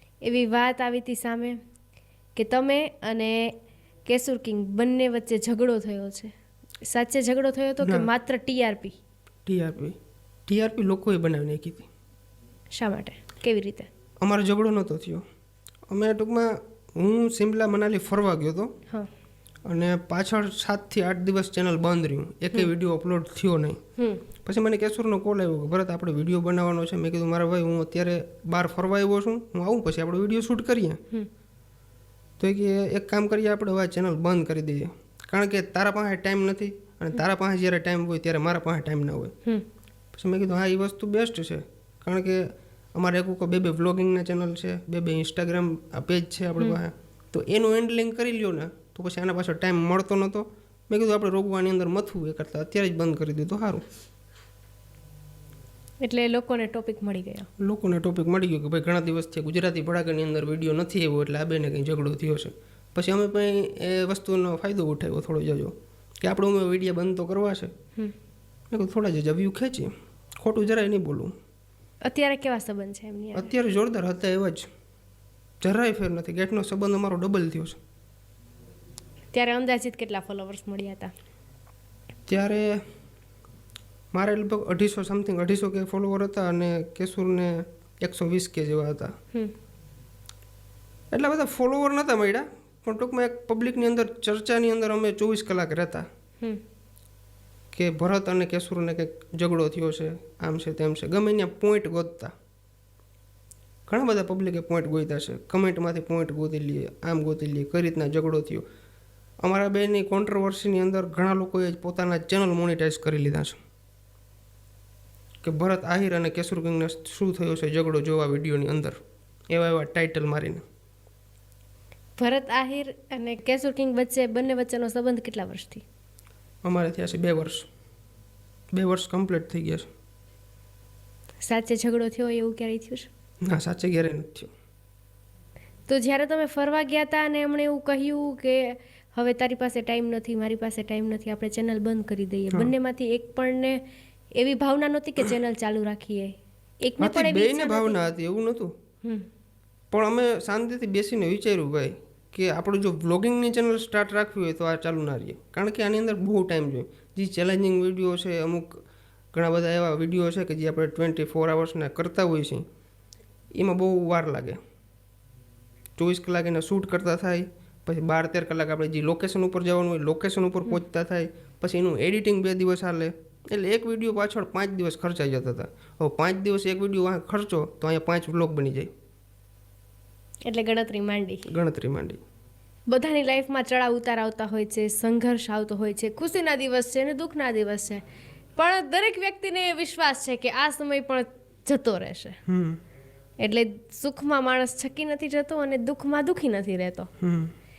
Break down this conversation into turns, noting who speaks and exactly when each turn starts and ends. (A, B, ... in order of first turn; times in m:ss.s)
0:00.2-0:01.6 A
0:02.4-0:03.5 A
0:04.0-0:06.3 A
0:06.8-0:09.0 A
0:07.8-0:08.1 B
0:09.5-0:10.0 B
0:10.5-0:11.9 B
0:12.7-0:13.9 A
0:14.2-0:15.2 B
0:15.9-0:18.7 B
0:19.6-0:23.8 B
0:24.4-0:31.0 B
0:32.4-0:39.3 B
0:40.1-0:53.8 B
0:56.0-0:57.5 A
0:57.6-1:07.7 B
1:08.7-1:11.3 B
1:12.0-1:13.5 A
1:13.3-1:14.7 B
1:15.6-1:17.8 B
1:19.3-1:21.1 A
1:22.3-1:22.8 B
1:24.1-1:29.1 B
1:31.1-1:36.1 B
1:37.7-1:42.3 B
1:43.9-1:48.6 B
1:49.4-1:53.6 B
1:55.4-1:59.0 B
1:59.5-2:00.6 B
2:02.2-2:05.8 A
2:06.6-2:07.7 B
2:08.7-2:09.9 B
2:11.4-2:13.1 A
2:13.4-2:14.5 B
2:15.9-2:23.8 A
2:24.4-2:28.0 A
2:27.0-2:28.7 B
2:29.9-2:42.6 B
2:43.5-2:44.6 B
2:46.0-2:58.9 B
3:00.4-3:01.5 A
3:01.5-3:02.2 B
3:02.9-3:08.0 A
3:08.6-3:12.4 A
3:12.5-3:12.8 B
3:13.4-3:17.1 A
3:17.2-3:17.5 B